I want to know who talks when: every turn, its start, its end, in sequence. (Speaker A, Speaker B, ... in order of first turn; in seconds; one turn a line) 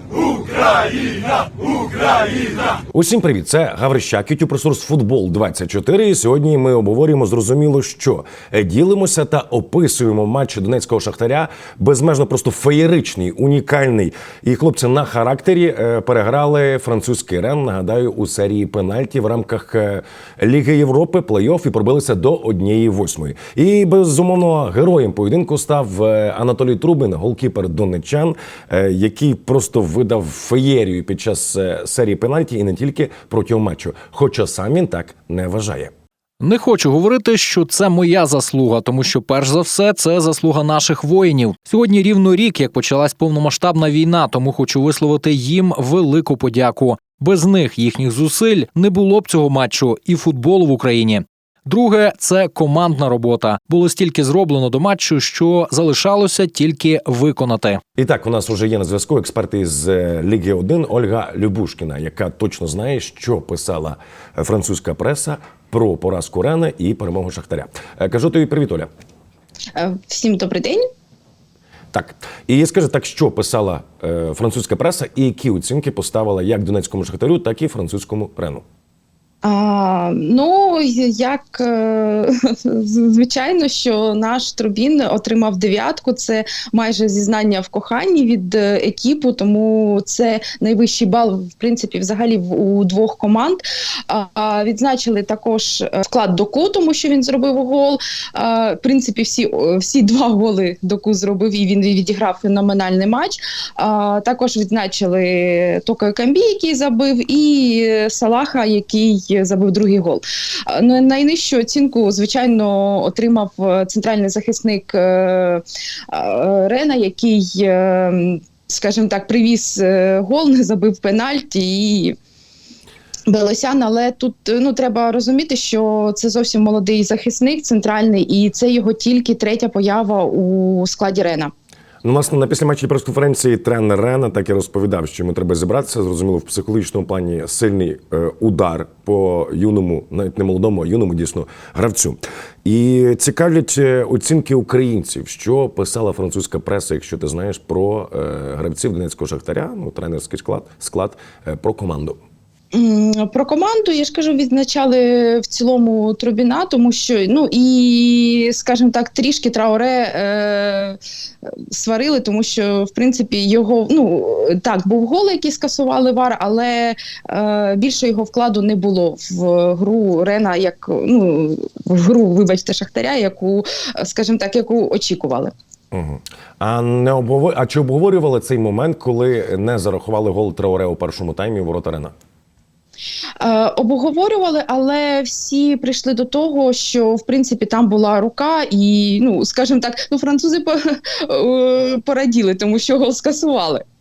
Speaker A: 2.9-35.9
Speaker B: 36.4-57.8
Speaker A: 58.0-68.9
Speaker C: 69.7-70.8
Speaker A: 71.9-78.6
Speaker C: 79.4-122.2
Speaker C: 123.3-131.5
Speaker A: 132.0-152.2
Speaker C: 152.7-175.5
Speaker A: 175.9-182.1
Speaker C: 183.4-193.8